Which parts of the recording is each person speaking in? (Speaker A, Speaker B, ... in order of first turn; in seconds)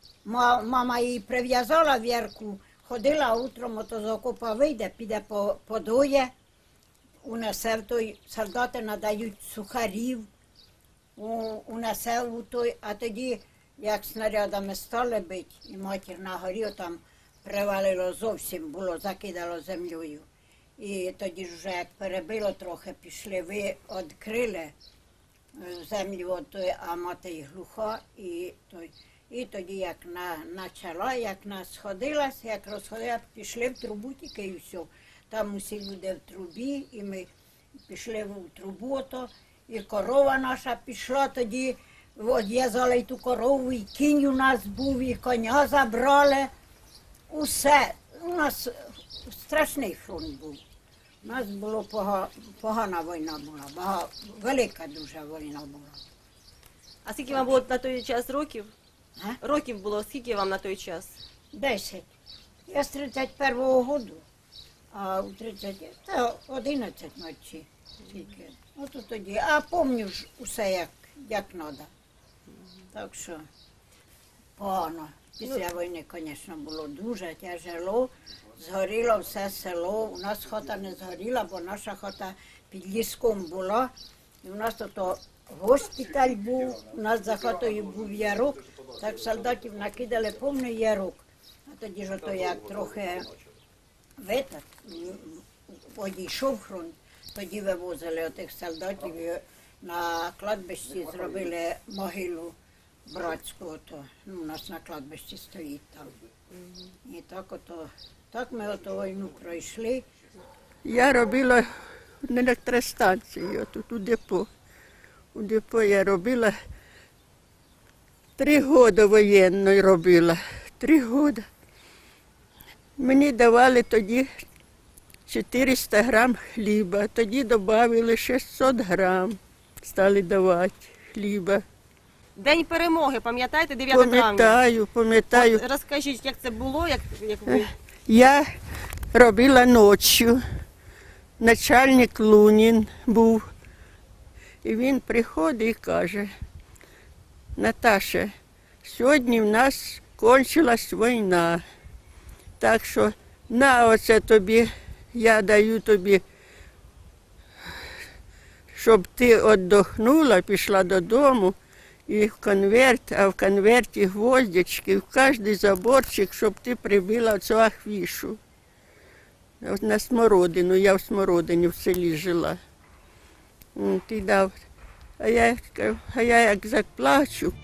Speaker A: 0.2-6.3, 7.2-10.3, 11.2-20.2, 20.8-24.7, 25.6-37.3, 37.9-46.5, 47.3-50.6, 51.2-56.0, 61.5-62.1, 62.7-64.2, 64.9-71.9, 72.9-73.4, 74.6-83.9, 84.4-93.3, 94.2-102.5, 103.1-106.1, 107.0-110.0
Speaker B: 57.0-58.7, 59.4-61.2, 132.4-134.6, 135.3-137.7
Speaker C: 110.8-111.7, 112.2-114.5, 115.3-116.5, 118.4-121.5, 123.0-124.4, 125.3-131.6, 133.9-135.6, 137.4-138.5, 139.1-140.4, 141.4-143.5, 144.6-146.3, 147.6-148.3, 148.8-151.6, 152.6-156.2, 158.7-161.6, 162.1-168.4, 169.6-172.6, 173.8-174.5, 175.2-177.5